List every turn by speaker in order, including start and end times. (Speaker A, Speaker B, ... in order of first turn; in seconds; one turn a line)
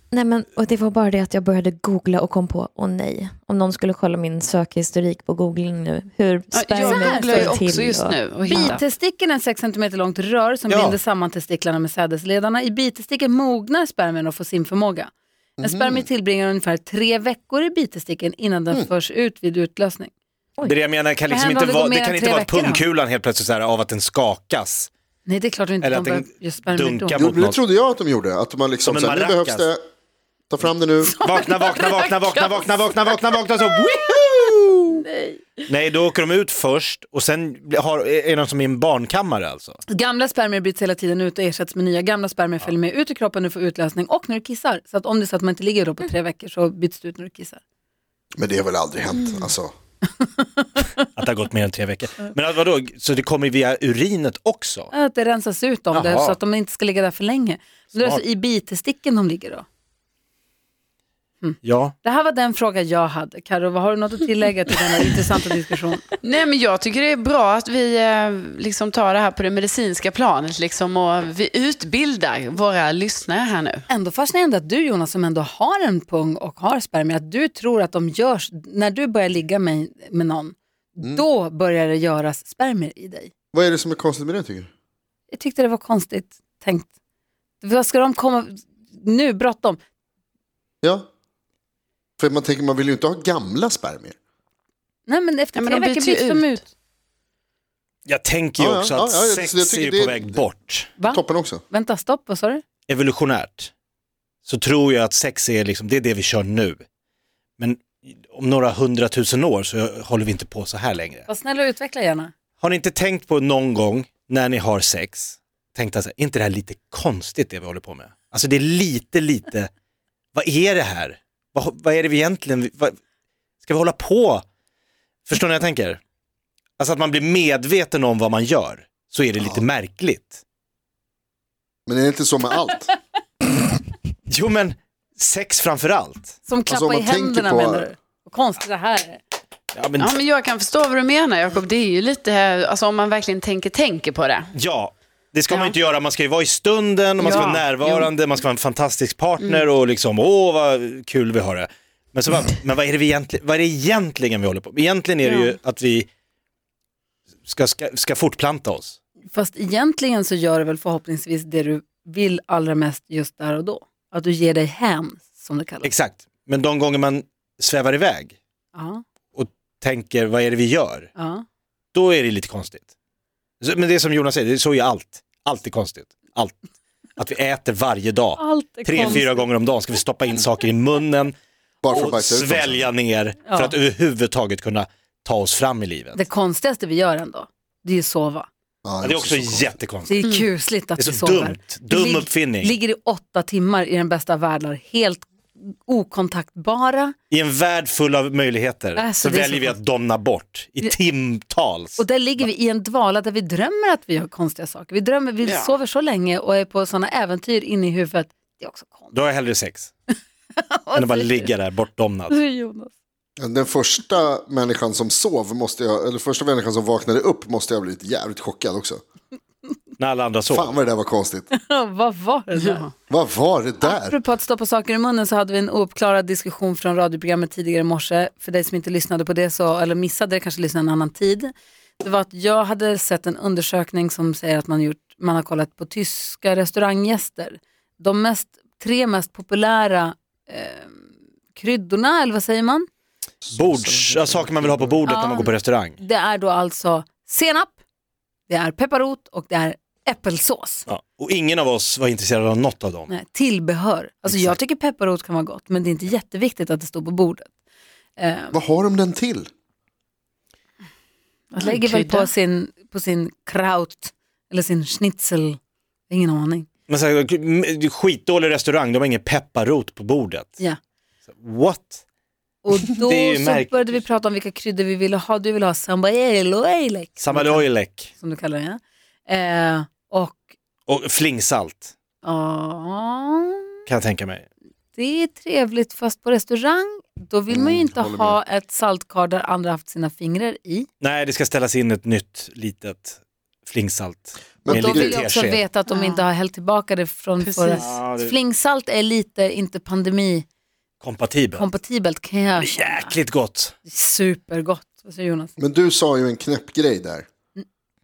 Speaker A: 0.1-8.8
Speaker B: 6.5-8.8
Speaker C: 6.8-7.5
Speaker C: 8.5-20.1
Speaker D: 10.7-11.0
Speaker E: 15.6-16.1
Speaker D: 20.6-24.9
Speaker C: 21.3-22.8
Speaker C: 25.2-27.2
Speaker D: 25.8-27.6
Speaker E: 27.2-29.8
Speaker D: 28.9-29.7
Speaker E: 30.5-31.2
Speaker B: 31.2-32.6
Speaker D: 31.2-34.6
Speaker B: 34.9-35.4
Speaker D: 35.7-39.8
Speaker C: 39.9-47.6
Speaker E: 48.4-49.7
Speaker D: 51.1-54.9
Speaker C: 54.9-59.7
Speaker D: 55.9-56.4
Speaker D: 57.9-58.2
Speaker C: 61.4-66.0
Speaker D: 61.6-61.9
Speaker B: 66.2-73.9
Speaker C: 73.9-83.3
Speaker E: 83.5-84.7
Speaker C: 85.3-86.9
Speaker C: 87.6-89.8
Speaker E: 90.8-91.1
Speaker E: 92.2-94.1
Speaker C: 95.1-96.7
Speaker B: 95.5-96.6
Speaker D: 98.1-100.9
Speaker E: 98.6-100.5
Speaker C: 101.0-102.6
Speaker E: 101.0-101.6
Speaker D: 102.9-103.7
Speaker D: 104.5-106.8
Speaker D: 107.6-111.2
Speaker C: 111.3-112.3
Speaker D: 112.6-119.7
Speaker D: 120.3-122.9
Speaker D: 123.6-124.4
Speaker D: 125.3-126.0
Speaker D: 126.8-130.4
Speaker E: 129.4-129.6
Speaker E: 131.9-132.9
Speaker D: 134.3-136.3
Speaker C: 136.4-139.2
Speaker E: 136.7-137.9
Speaker D: 139.7-140.1
Speaker B: 140.0-144.5
Speaker D: 144.5-156.1
Speaker B: 147.2-148.1
Speaker B: 155.2-155.5
Speaker D: 157.4-159.0
Speaker C: 159.3-165.9
Speaker D: 165.8-168.3
Speaker C: 168.7-169.0
Speaker D: 169.3-171.1
Speaker C: 171.1-171.4
Speaker D: 171.9-172.9
Speaker D: 173.6-176.6
Speaker D: 177.2-181.3
Speaker C: 178.4-179.5
Speaker E: 181.8-182.9
Speaker D: 181.9-186.2
Speaker C: 183.5-183.8
Speaker C: 186.2-188.5
Speaker E: 188.8-189.8
Speaker D: 189.0-190.3
Speaker C: 190.1-197.1
Speaker D: 191.0-192.8
Speaker D: 197.3-202.5
Speaker C: 198.9-199.8
Speaker C: 202.0-209.1
Speaker B: 205.4-205.8
Speaker D: 209.1-209.9
Speaker C: 210.6-211.5
Speaker D: 210.9-212.4
Speaker C: 212.3-212.9
Speaker E: 213.4-219.0
Speaker D: 220.0-220.7
Speaker E: 220.5-221.5
Speaker C: 221.5-222.9
Speaker B: 222.6-222.9
Speaker E: 223.1-224.2
Speaker C: 223.8-241.0
Speaker C: 241.5-242.8
Speaker E: 243.4-245.1
Speaker D: 243.5-246.0
Speaker C: 245.1-247.8
Speaker C: 248.5-250.9
Speaker D: 250.9-253.1
Speaker C: 253.1-257.5
Speaker D: 254.3-254.6
Speaker C: 258.2-258.5
Speaker E: 258.5-259.5
Speaker C: 261.5-266.7
Speaker B: 261.6-262.3
Speaker D: 266.9-270.6
Speaker D: 271.3-272.0
Speaker C: 272.6-280.4
Speaker D: 273.0-274.0
Speaker D: 277.2-278.1
Speaker D: 280.9-281.9
Speaker C: 282.2-283.7
Speaker D: 283.9-284.5
Speaker C: 285.0-290.9
Speaker E: 287.5-288.4
Speaker D: 291.0-295.6
Speaker E: 294.6-295.2
Speaker C: 294.7-300.5
Speaker B: 295.9-296.2
Speaker B: 297.4-297.9
Speaker D: 297.7-298.3
Speaker D: 301.0-301.6
Speaker C: 301.5-303.1
Speaker D: 302.6-303.7
Speaker C: 303.9-305.5
Speaker E: 305.6-307.2